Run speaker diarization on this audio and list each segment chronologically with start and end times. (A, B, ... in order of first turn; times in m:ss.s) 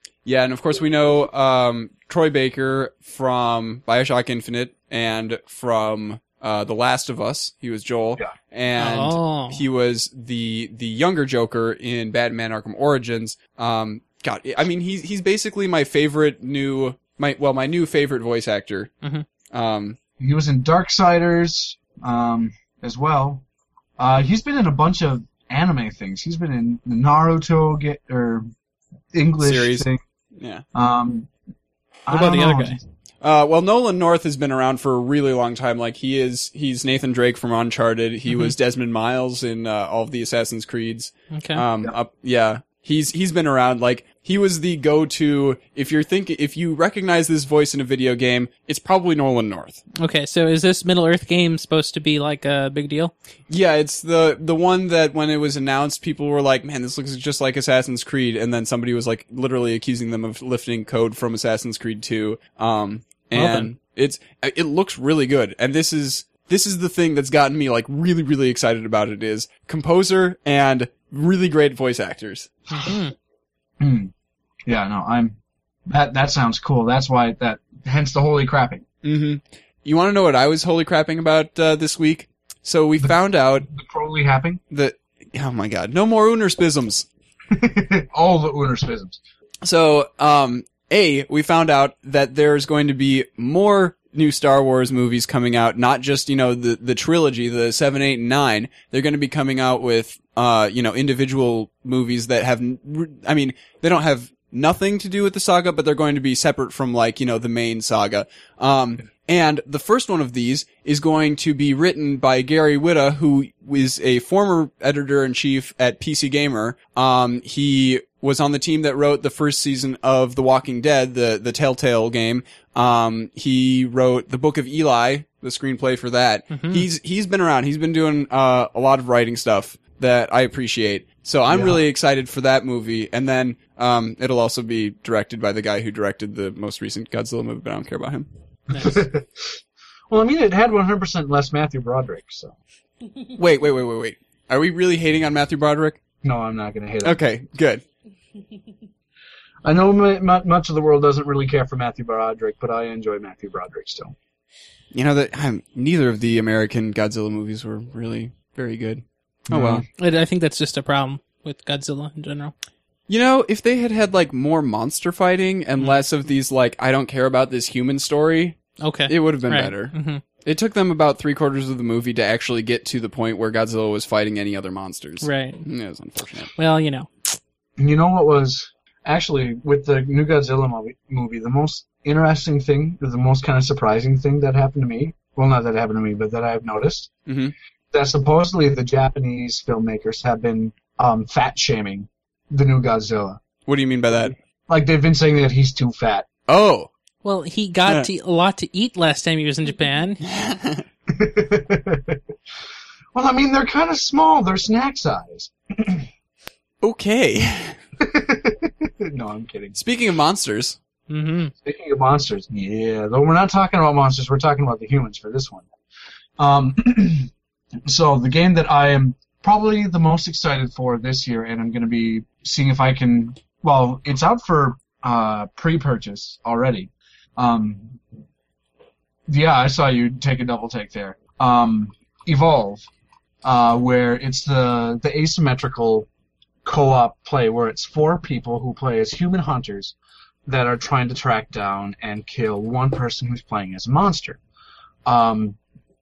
0:00.2-0:18.9 A
0:08.8-0:09.6 B
0:19.5-0:20.0 A
0:20.2-0:23.4 C
0:24.0-0:28.5 C
0:29.1-0:30.0 C
0:29.4-0:30.6 A
0:30.7-0:31.3 C
0:32.1-0:32.8 C
0:32.1-0:32.8 B
0:33.2-0:49.8 A
0:41.3-0:41.6 B
0:50.0-0:53.1 B
0:53.5-1:12.5 A
1:03.4-1:03.7 B
1:12.7-1:13.1 B
1:13.8-1:14.1 C
1:14.7-1:15.4 C
1:15.9-1:18.8 C
1:19.0-1:23.7 A
1:23.6-1:24.6 C
1:24.7-1:27.1 A
1:27.5-1:29.2 C
1:29.6-2:18.3 A
2:06.5-2:06.8 B
2:11.5-2:11.8 C
2:18.7-2:19.5 C
2:20.1-2:22.5 C
2:23.4-2:26.0 A
2:26.2-2:27.2 C
2:27.0-2:27.8 A
2:29.6-2:34.1 C
2:34.9-2:39.8 A
2:39.5-2:39.8 C
2:40.0-2:42.5 B
2:43.1-2:56.5 A
2:48.8-2:50.2 B
2:55.2-2:55.6 B
2:56.6-2:57.1 B
2:57.8-3:07.1 C
3:07.3-3:07.5 A
3:07.9-3:13.4 C
3:13.6-3:14.4 A
3:14.7-3:16.3 C
3:16.5-3:16.9 A
3:17.2-3:20.2 B
3:20.2-3:20.8 A
3:21.1-3:22.2 C
3:23.1-3:26.1 C
3:26.8-3:27.8 A
3:28.0-3:29.8 C
3:29.7-3:30.8 A
3:31.1-3:31.5 B
3:31.6-3:35.7 C
3:36.4-3:37.3 C
3:37.8-3:48.0 C
3:49.3-3:52.9 C
3:53.4-3:56.1 C
3:56.6-3:59.9 C
4:00.5-4:04.4 C
4:05.1-4:05.6 C